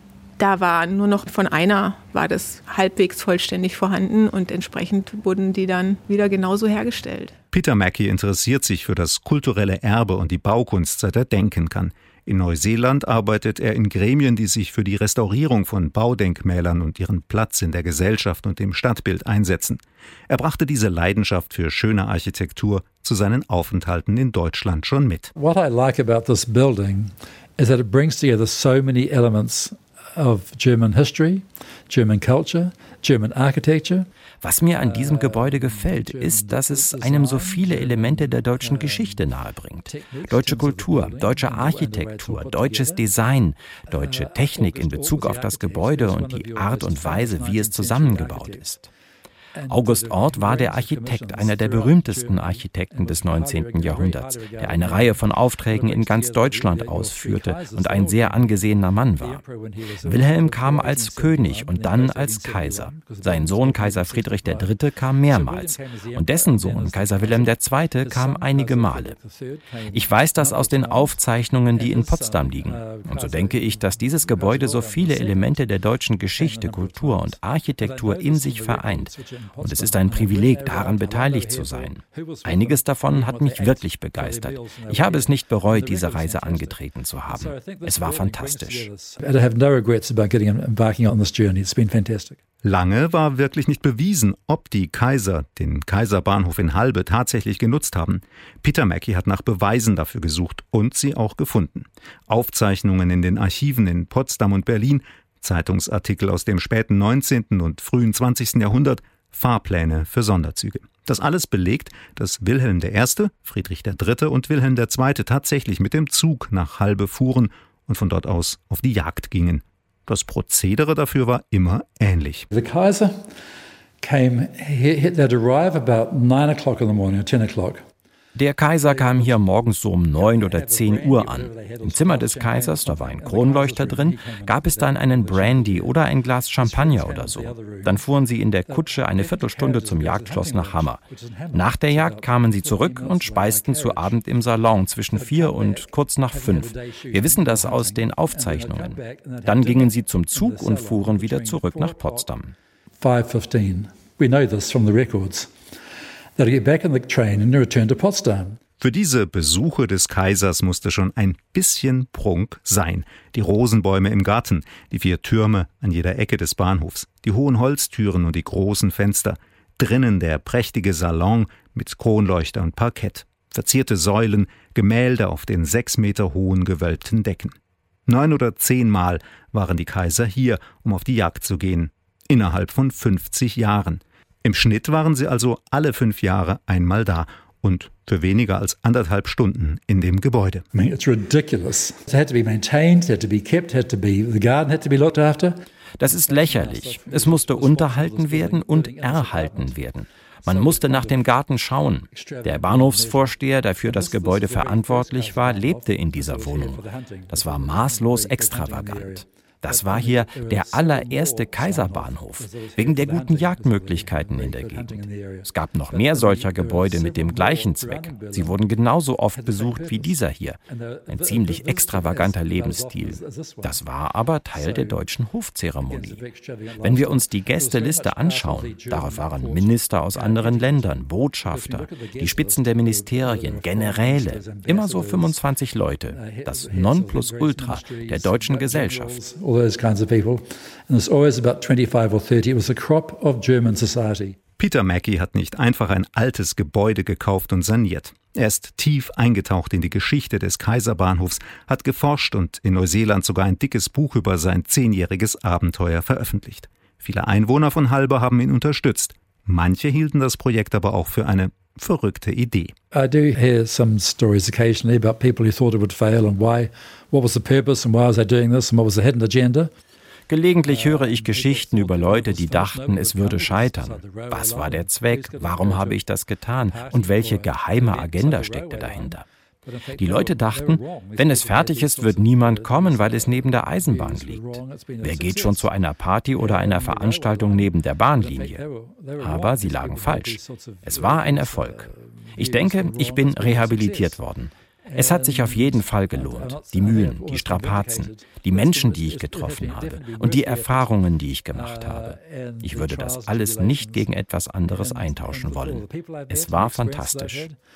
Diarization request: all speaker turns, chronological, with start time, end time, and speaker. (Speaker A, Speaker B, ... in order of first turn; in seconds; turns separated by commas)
Speaker A: 0.4-7.3, Speaker B: 7.5-25.3, Speaker C: 25.4-34.1, Speaker D: 34.4-48.9, Speaker C: 34.8-39.2, Speaker C: 39.9-43.0, Speaker C: 43.9-48.6, Speaker C: 49.5-64.7, Speaker D: 49.7-59.4, Speaker D: 60.0-69.1, Speaker C: 65.3-71.2, Speaker D: 69.9-88.9, Speaker C: 71.7-75.7, Speaker C: 76.4-92.4, Speaker B: 92.6-122.5, Speaker C: 122.5-123.3, Speaker C: 124.0-127.8, Speaker D: 128.3-141.0, Speaker C: 128.8-136.0, Speaker C: 136.6-138.1, Speaker C: 138.7-144.2, Speaker D: 141.5-152.5, Speaker C: 145.1-152.3, Speaker C: 153.0-155.5, Speaker C: 156.3-158.6, Speaker B: 158.8-177.5, Speaker B: 178.1-190.6, Speaker C: 190.7-195.6, Speaker D: 196.0-220.6, Speaker C: 196.2-199.8, Speaker C: 200.4-201.3, Speaker C: 202.1-218.6, Speaker C: 219.3-223.8, Speaker D: 221.1-226.2, Speaker C: 224.5-225.1, Speaker C: 225.9-230.9, Speaker D: 226.8-239.2, Speaker C: 231.4-235.4, Speaker C: 236.1-244.4, Speaker B: 244.6-262.7, Speaker C: 262.9-269.7, Speaker D: 270.3-279.2, Speaker C: 270.6-276.0, Speaker C: 276.7-285.7, Speaker D: 280.0-288.6, Speaker C: 286.4-294.2, Speaker D: 289.2-307.5, Speaker C: 294.9-301.0, Speaker C: 301.5-304.1, Speaker C: 304.7-307.6